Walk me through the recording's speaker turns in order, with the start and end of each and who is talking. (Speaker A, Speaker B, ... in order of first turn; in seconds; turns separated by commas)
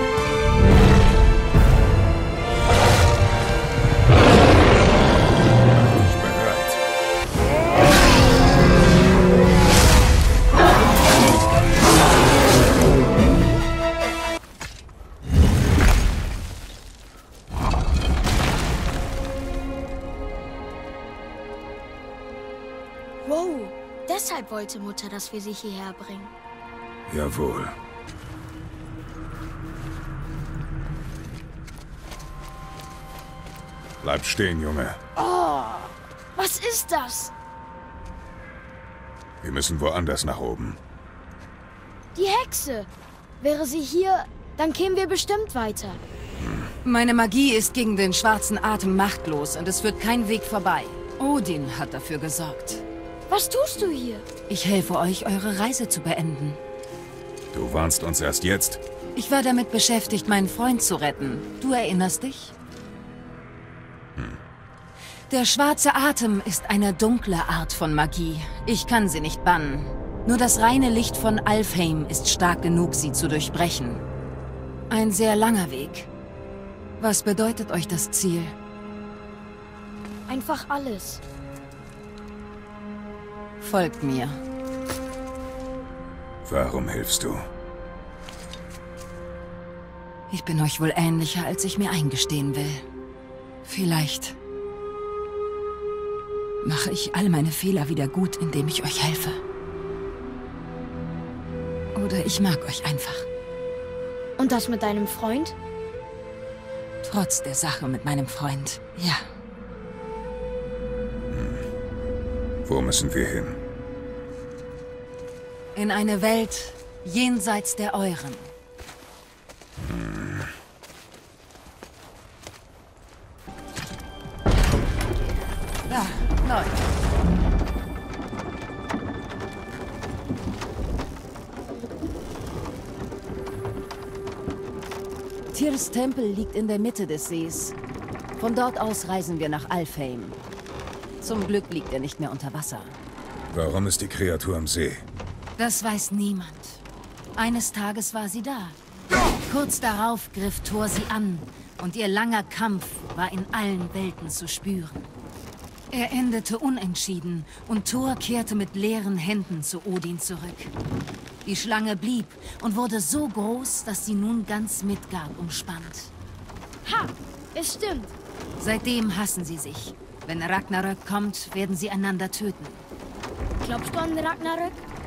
Speaker A: 5.7-6.8, Speaker B: 23.2-26.3, Speaker A: 27.1-27.7, Speaker A: 34.0-35.0, Speaker B: 35.2-37.3, Speaker A: 39.4-40.8, Speaker B: 42.1-46.0, Speaker C: 46.8-52.8, Speaker B: 53.3-54.3, Speaker C: 54.5-56.6, Speaker A: 57.5-58.8, Speaker C: 59.1-62.5, Speaker C: 65.3-74.0, Speaker C: 74.9-76.1, Speaker C: 77.0-78.5, Speaker B: 80.3-81.2, Speaker C: 83.6-84.4, Speaker A: 86.4-87.4, Speaker C: 90.3-92.8, Speaker C: 93.6-94.4, Speaker C: 96.6-99.4, Speaker C: 101.9-103.3, Speaker B: 104.4-105.5, Speaker C: 107.0-109.2, Speaker A: 111.3-111.6, Speaker A: 112.6-113.6, Speaker C: 115.7-118.5, Speaker C: 125.9-126.8, Speaker C: 135.5-137.8, Speaker C: 138.3-140.4, Speaker C: 141.2-142.9, Speaker A: 143.5-145.0, Speaker C: 145.6-146.8, Speaker C: 147.3-148.8, Speaker C: 149.4-155.0, Speaker C: 155.9-160.7, Speaker C: 161.4-166.1, Speaker B: 166.8-168.1, Speaker C: 168.6-172.8, Speaker B: 173.6-174.8